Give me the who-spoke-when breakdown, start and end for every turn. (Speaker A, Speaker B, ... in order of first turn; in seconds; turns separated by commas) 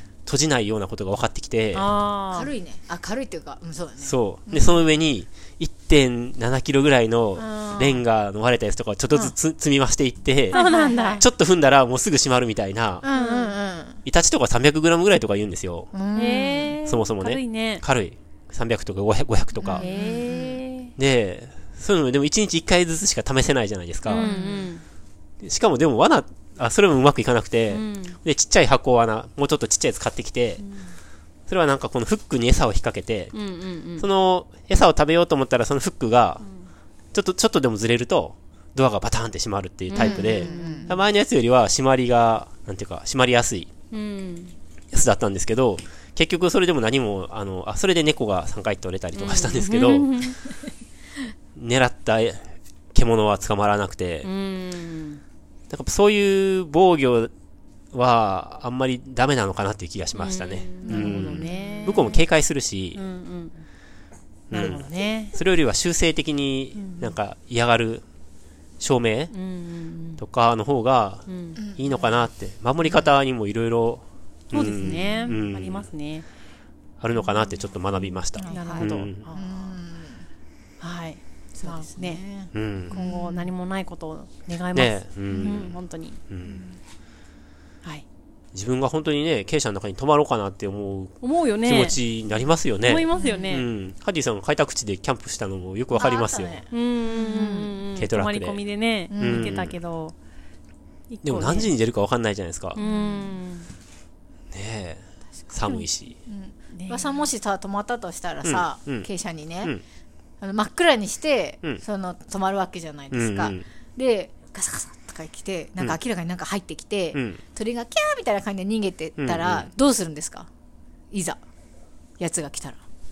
Speaker A: 0.2-1.9, Speaker B: 1.7-2.5, Speaker C: 2.3-4.9, Speaker A: 4.0-10.6, Speaker C: 7.4-8.0, Speaker C: 10.5-11.2, Speaker B: 10.5-11.2, Speaker A: 11.2-13.0, Speaker C: 13.0-14.0, Speaker B: 13.1-13.5, Speaker A: 14.1-15.9, Speaker C: 15.9-16.8, Speaker B: 16.1-17.8, Speaker A: 16.9-19.9, Speaker C: 19.6-20.6, Speaker B: 19.8-20.9, Speaker A: 21.0-24.3, Speaker B: 24.1-24.8, Speaker C: 24.1-24.7, Speaker A: 25.4-30.6, Speaker B: 27.7-28.2, Speaker B: 30.6-30.9, Speaker A: 31.5-33.3, Speaker B: 33.3-34.1, Speaker A: 34.0-36.4, Speaker B: 36.4-36.7, Speaker A: 37.1-43.7, Speaker B: 39.9-41.0, Speaker C: 39.9-40.9, Speaker B: 43.9-44.5, Speaker A: 44.9-50.1, Speaker B: 49.1-50.4, Speaker A: 51.6-54.3, Speaker B: 54.2-55.2, Speaker A: 55.7-57.3, Speaker A: 57.9-63.0, Speaker B: 60.1-62.2, Speaker C: 60.8-61.8, Speaker B: 63.0-63.6, Speaker A: 64.5-68.0, Speaker B: 64.5-65.3, Speaker B: 66.8-67.2, Speaker A: 68.8-69.3, Speaker B: 69.3-70.2, Speaker A: 70.2-75.9, Speaker B: 71.3-71.6, Speaker C: 71.6-72.3, Speaker C: 72.8-73.1, Speaker B: 74.5-76.2, Speaker A: 77.0-79.2, Speaker B: 78.4-79.8, Speaker C: 78.4-80.2, Speaker B: 80.8-82.2, Speaker C: 81.6-83.5, Speaker A: 82.5-83.0, Speaker B: 82.9-86.2, Speaker A: 84.7-85.8, Speaker A: 86.3-86.6, Speaker C: 86.5-86.8, Speaker A: 88.5-96.6, Speaker B: 91.2-92.0, Speaker B: 92.8-93.7, Speaker C: 93.1-93.5, Speaker C: 95.9-97.8, Speaker B: 96.7-100.1, Speaker A: 98.0-98.6, Speaker C: 99.1-99.6, Speaker A: 99.2-99.8, Speaker B: 101.1-101.7, Speaker A: 101.2-102.8, Speaker C: 102.8-103.3, Speaker B: 102.8-103.7, Speaker A: 104.5-106.2, Speaker C: 106.3-109.8, Speaker B: 106.7-107.3, Speaker A: 108.4-109.1, Speaker C: 110.4-120.5, Speaker A: 113.1-113.7, Speaker A: 117.1-117.4, Speaker A: 119.2-119.7, Speaker C: 121.1-121.4, Speaker C: 122.2-122.8